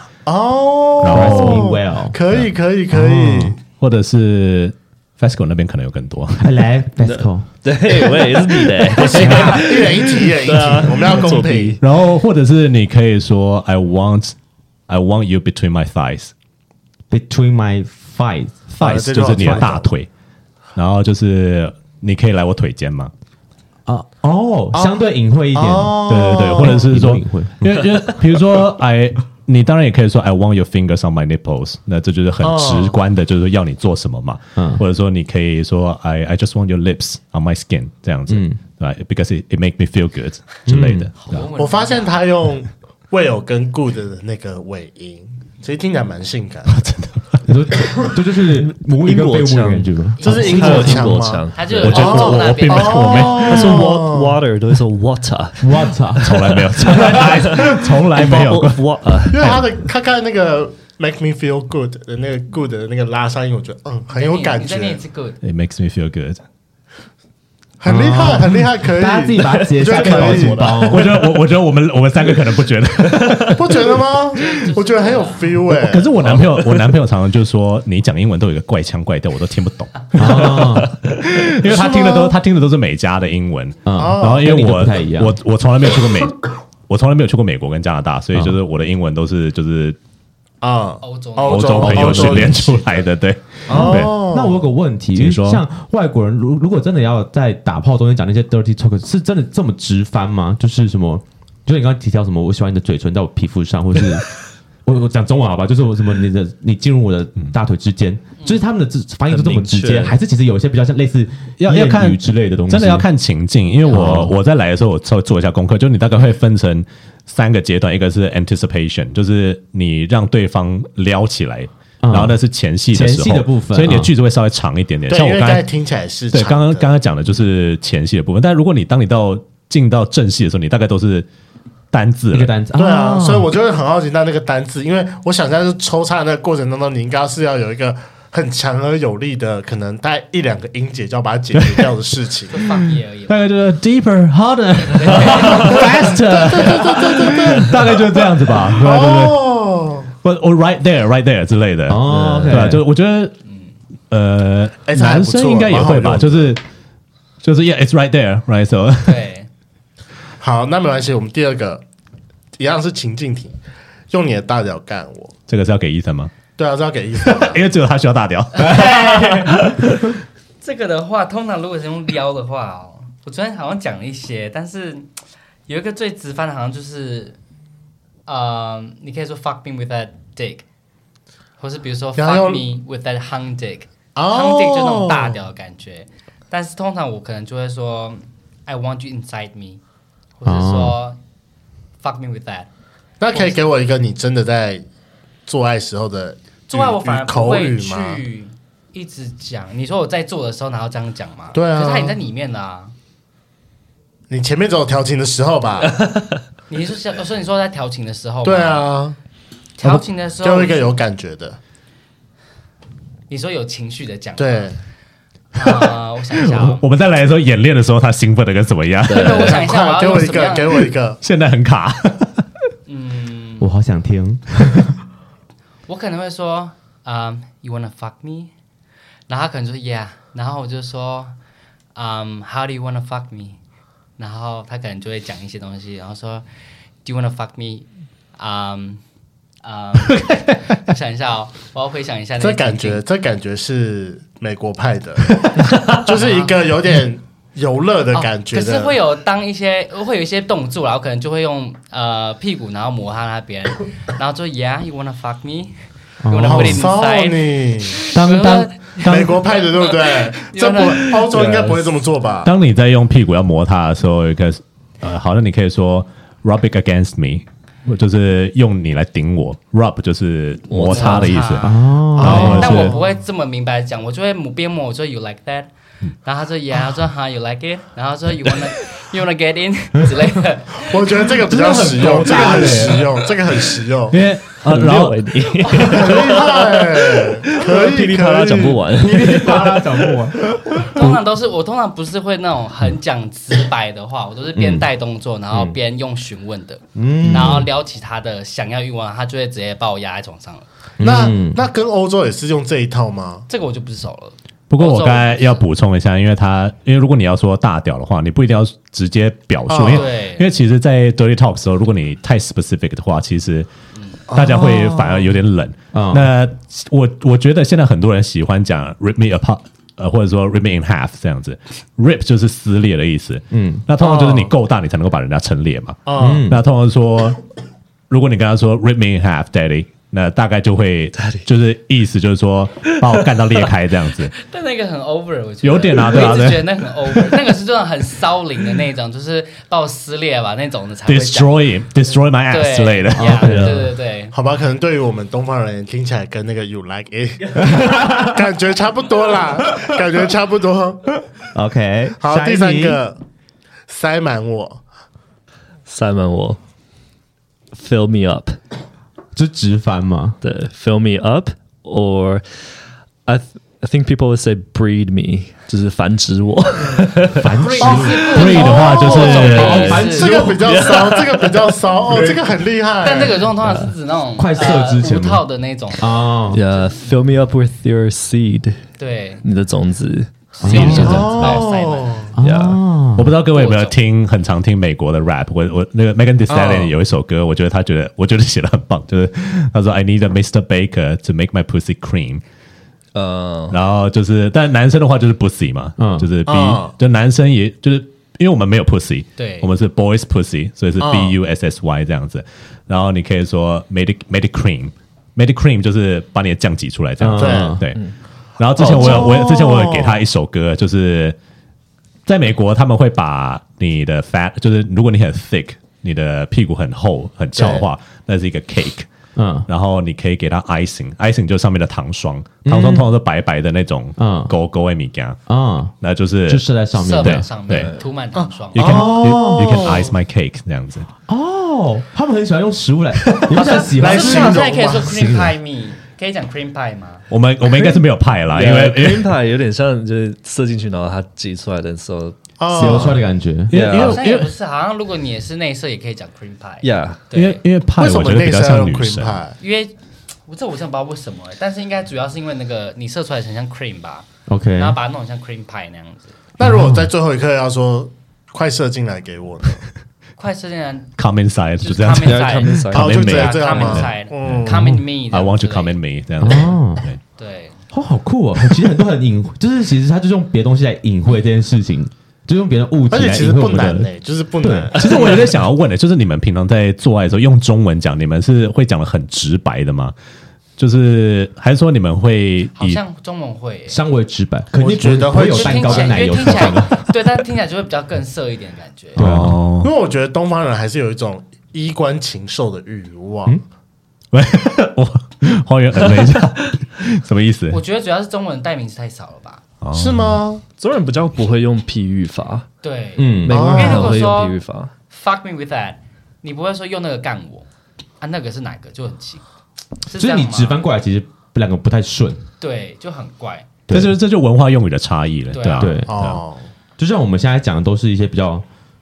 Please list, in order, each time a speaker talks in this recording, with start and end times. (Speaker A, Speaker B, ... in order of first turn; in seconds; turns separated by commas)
Speaker A: 0.2-3.6, Speaker B: 1.0-1.7, Speaker C: 1.0-2.2, Speaker C: 2.9-3.5, Speaker B: 3.8-6.5, Speaker C: 6.4-7.5, Speaker D: 7.0-11.8, Speaker A: 8.9-11.8, Speaker C: 8.9-9.6, Speaker B: 11.8-14.3, Speaker B: 14.9-16.3, Speaker C: 17.1-18.7, Speaker B: 18.7-20.1, Speaker A: 18.8-19.9, Speaker C: 19.4-19.7, Speaker B: 20.8-23.1, Speaker C: 23.9-28.0, Speaker A: 24.7-25.0, Speaker A: 25.5-26.8, Speaker B: 26.1-41.5, Speaker A: 32.4-33.0, Speaker C: 34.5-34.8, Speaker C: 38.3-38.6, Speaker C: 40.7-41.1, Speaker E: 41.1-42.2, Speaker A: 41.6-46.8, Speaker B: 46.7-47.4, Speaker C: 47.4-51.2, Speaker D: 48.6-52.2, Speaker E: 50.2-50.6, Speaker A: 50.2-54.4, Speaker E: 51.5-53.3, Speaker B: 51.8-53.8, Speaker C: 53.2-53.8, Speaker D: 53.4-59.6, Speaker C: 55.6-58.3, Speaker B: 56.2-59.6, Speaker A: 59.3-65.0, Speaker E: 64.1-65.4, Speaker B: 65.4-66.4, Speaker A: 67.8-71.0, Speaker C: 67.8-71.1, Speaker D: 70.3-70.7, Speaker B: 70.8-74.0, Speaker D: 73.2-73.5, Speaker A: 73.5-76.5, Speaker E: 74.4-75.5, Speaker B: 75.7-90.0, Speaker C: 80.1-80.9, Speaker A: 81.7-82.3, Speaker C: 83.8-85.3, Speaker A: 84.0-84.4, Speaker A: 90.6-93.0, Speaker E: 91.0-92.1, Speaker B: 91.5-94.2, Speaker C: 92.0-92.5, Speaker A: 93.7-94.6, Speaker C: 93.7-104.3, Speaker B: 95.1-95.6, Speaker C: 104.8-113.1, Speaker D: 109.3-110.1, Speaker B: 111.6-125.7, Speaker C: 113.9-114.3, Speaker C: 122.0-122.4, Speaker C: 122.9-124.1, Speaker A: 125.1-126.9, Speaker B: 126.3-131.3, Speaker B: 131.9-132.5, Speaker C: 132.3-133.5, Speaker A: 132.7-142.6, Speaker B: 141.5-141.9, Speaker E: 142.5-143.4, Speaker B: 143.3-149.4, Speaker E: 144.9-145.9, Speaker A: 145.4-150.1, Speaker B: 150.2-153.3, Speaker C: 151.9-152.8, Speaker D: 152.1-152.6, Speaker E: 153.5-153.7, Speaker B: 154.1-156.6, Speaker A: 154.9-156.5, Speaker B: 157.4-159.2, Speaker E: 159.0-159.5, Speaker A: 160.4-161.8, Speaker A: 162.6-163.6, Speaker A: 164.1-165.3, Speaker B: 165.5-166.3, Speaker A: 166.6-167.6, Speaker B: 167.2-169.8, Speaker C: 168.6-169.6, Speaker E: 168.6-169.3, Speaker E: 170.6-175.1, Speaker E: 175.7-177.4, Speaker E: 178.3-180.6, Speaker E: 181.6-189.8, Speaker A: 182.2-182.6, Speaker A: 184.1-185.4, Speaker E: 190.4-191.2, Speaker C: 190.4-191.0, Speaker E: 192.0-192.7, Speaker A: 193.2-194.8, Speaker E: 193.3-193.6, Speaker A: 195.5-198.2, Speaker E: 196.7-202.9, Speaker A: 201.5-202.2, Speaker A: 204.3-206.0, Speaker E: 206.7-208.9, Speaker A: 208.4-209.2, Speaker E: 209.8-210.9, Speaker A: 210.4-211.6, Speaker E: 213.3-214.7, Speaker A: 214.4-214.8, Speaker E: 215.5-216.8, Speaker B: 216.5-219.6, Speaker D: 219.1-219.5, Speaker E: 219.1-220.9, Speaker A: 219.4-221.2, Speaker B: 221.2-222.3, Speaker E: 222.9-223.7, Speaker C: 223.6-225.0, Speaker E: 225.9-228.5, Speaker E: 229.3-231.3, Speaker E: 231.9-233.6, Speaker E: 234.2-236.4, Speaker E: 237.0-239.0, Speaker E: 239.6-243.0, Speaker B: 240.1-240.6, Speaker A: 242.4-249.0, Speaker E: 246.1-246.5, Speaker E: 248.1-255.7, Speaker C: 256.2-256.9, Speaker E: 256.3-261.9, Speaker A: 256.4-258.0, Speaker B: 258.1-259.4, Speaker A: 259.1-262.5, Speaker B: 262.4-273.0, Speaker D: 270.7-271.3, Speaker E: 270.9-275.7, Speaker C: 271.6-272.9, Speaker A: 272.2-273.0, Speaker E: 276.2-283.0, Speaker A: 280.8-284.2, Speaker C: 281.4-283.0, Speaker B: 284.1-285.4, Speaker D: 284.6-290.1, Speaker A: 285.9-288.8, Speaker C: 288.9-291.1, Speaker E: 290.9-300.6, Speaker C: 294.5-294.9, Speaker C: 296.9-297.7, Speaker C: 301.0-301.6, Speaker A: 301.0-303.4, Speaker E: 303.5-305.6, Speaker B: 304.7-313.7, Speaker A: 309.7-310.1, Speaker E: 309.9-310.5, Speaker A: 314.3-315.3, Speaker B: 314.3-327.4, Speaker C: 315.9-316.3, Speaker C: 323.5-323.8, Speaker A: 324.0-324.5, Speaker A: 326.1-326.4, Speaker C: 326.2-326.6, Speaker B: 328.1-334.3, Speaker D: 331.2-331.4, Speaker E: 334.3-341.6, Speaker B: 335.6-336.8, Speaker B: 341.1-343.7, Speaker E: 342.5-344.3, Speaker C: 343.1-343.9, Speaker D: 343.4-343.8, Speaker A: 344.3-351.2, Speaker C: 347.7-348.3, Speaker C: 351.5-353.0, Speaker A: 352.2-353.2, Speaker A: 353.9-354.8, Speaker D: 355.9-356.6, Speaker D: 357.7-358.6, Speaker C: 359.3-360.4, Speaker D: 360.4-362.4, Speaker D: 363.2-368.6, Speaker C: 367.4-370.8, Speaker E: 367.6-370.4, Speaker A: 367.9-373.5, Speaker B: 368.3-370.0, Speaker D: 370.6-372.3, Speaker E: 373.0-377.0, Speaker D: 373.6-373.9, Speaker C: 374.4-375.4, Speaker C: 376.0-376.6, Speaker D: 376.5-378.8, Speaker E: 379.0-379.4, Speaker D: 379.4-381.4, Speaker E: 380.5-382.3, Speaker C: 380.6-381.6, Speaker A: 380.8-382.3, Speaker C: 382.4-383.3, Speaker D: 382.4-382.8, Speaker B: 383.1-392.4, Speaker E: 383.5-384.0, Speaker A: 386.5-386.9, Speaker D: 393.1-393.8, Speaker B: 393.7-408.0, Speaker C: 396.0-396.3, Speaker A: 396.5-396.9, Speaker E: 399.4-399.7, Speaker A: 401.0-401.3, Speaker C: 407.2-407.8, Speaker A: 407.4-407.8, Speaker B: 408.6-411.4, Speaker A: 408.8-410.2, Speaker C: 408.8-409.5, Speaker B: 412.2-419.1, Speaker A: 417.6-417.9, Speaker C: 419.4-419.7, Speaker B: 419.7-425.4, Speaker C: 422.6-423.1, Speaker C: 424.2-424.5, Speaker C: 425.5-425.9, Speaker B: 426.0-426.7, Speaker C: 426.4-427.4, Speaker E: 426.9-428.9, Speaker B: 427.2-427.9, Speaker D: 427.7-428.1, Speaker A: 428.3-430.1, Speaker B: 428.7-431.1, Speaker C: 428.8-430.0, Speaker C: 431.3-435.5, Speaker B: 433.2-433.5, Speaker E: 433.5-437.2, Speaker A: 433.7-435.1, Speaker B: 437.3-439.3, Speaker D: 438.5-442.4, Speaker A: 442.6-443.2, Speaker C: 442.7-443.8, Speaker B: 443.7-444.5, Speaker D: 443.7-444.2, Speaker E: 443.9-447.6, Speaker D: 446.8-447.2, Speaker B: 447.3-449.4, Speaker A: 448.0-449.6, Speaker E: 449.6-449.9, Speaker E: 450.5-454.2, Speaker C: 454.5-455.0, Speaker E: 454.8-456.3, Speaker A: 456.6-459.8, Speaker C: 456.6-457.1, Speaker E: 460.4-461.1, Speaker B: 461.2-467.2, Speaker E: 461.8-466.0, Speaker D: 462.1-463.3, Speaker A: 462.9-464.9, Speaker C: 466.4-467.1, Speaker E: 467.4-467.8, Speaker C: 467.9-474.1, Speaker A: 473.1-475.5, Speaker C: 474.6-474.9, Speaker B: 474.9-480.1, Speaker B: 480.8-483.0, Speaker E: 482.8-484.0, Speaker C: 483.9-487.1, Speaker A: 484.7-486.7, Speaker E: 485.3-489.2, Speaker C: 489.1-489.6, Speaker B: 489.1-489.9, Speaker A: 489.8-493.6, Speaker B: 494.3-497.8, Speaker E: 497.7-499.6, Speaker B: 499.8-500.4, Speaker A: 499.9-500.6, Speaker D: 500.8-502.7, Speaker E: 502.8-504.6, Speaker C: 503.2-503.9, Speaker D: 503.4-504.9, Speaker A: 503.5-504.1, Speaker E: 505.1-507.6, Speaker E: 508.2-509.4, Speaker E: 510.0-510.8, Speaker C: 510.1-512.4, Speaker E: 512.6-513.7, Speaker C: 513.9-514.1, Speaker B: 513.9-516.4, Speaker E: 515.5-515.9, Speaker C: 515.8-516.1, Speaker A: 516.1-516.7, Speaker C: 517.0-518.6